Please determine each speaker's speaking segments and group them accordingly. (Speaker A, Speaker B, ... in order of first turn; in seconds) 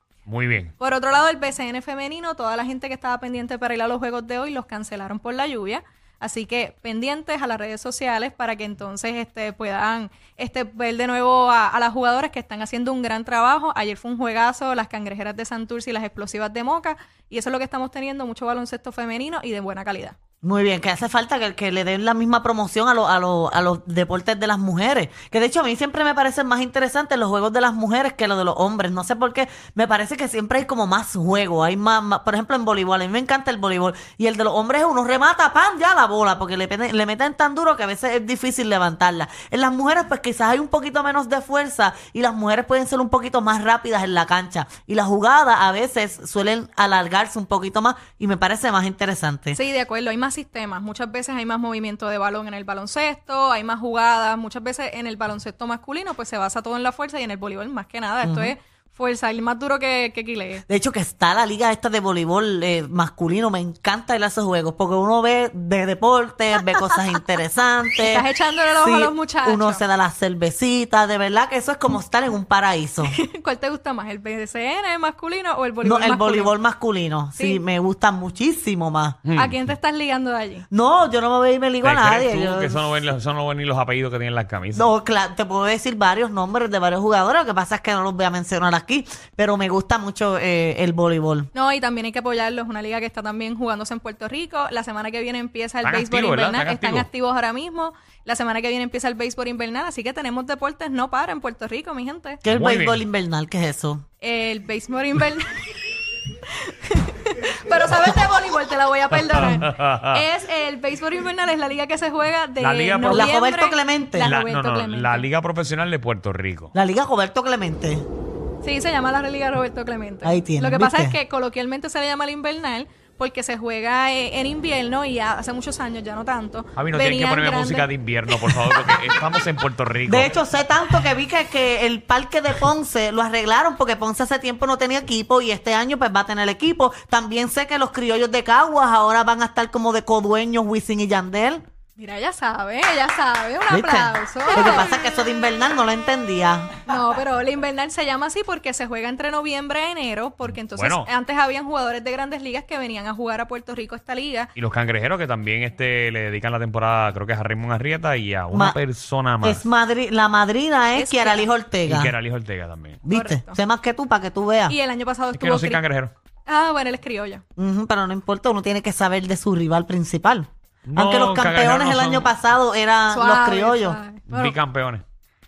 Speaker A: 0.2-0.7, 79.2-79.7, 81.8-84.9, 95.8-97.1, 102.5-103.0, 109.4-110.2, 112.6-113.2, 114.2-116.7, 126.8-130.4, 150.7-151.1, 154.6-159.6, 161.8-163.0, 165.3-166.1, 170.8-172.3, 174.3-175.0
Speaker B: 0.8-20.2, 49.5-60.6, 68.0-69.8, 73.0-76.5, 77.3-77.6, 79.3-80.6, 91.5-102.4, 104.2-105.6, 106.5-115.3, 118.6-127.9, 142.0-144.9, 146.8-154.5, 160.9-161.5, 163.1-163.6, 164.7-165.8, 166.5-167.4, 173.1-174.6
Speaker C: 20.4-49.6, 58.2-58.5, 60.7-68.2, 68.8-73.1, 75.8-79.2, 80.7-82.8, 84.7-91.5, 102.4-104.0, 113.1-114.3, 116.7-118.0, 120.2-121.2, 130.1-141.6, 143.7-146.8, 158.5-158.8, 159.4-162.1, 163.0-164.8, 167.6-174.0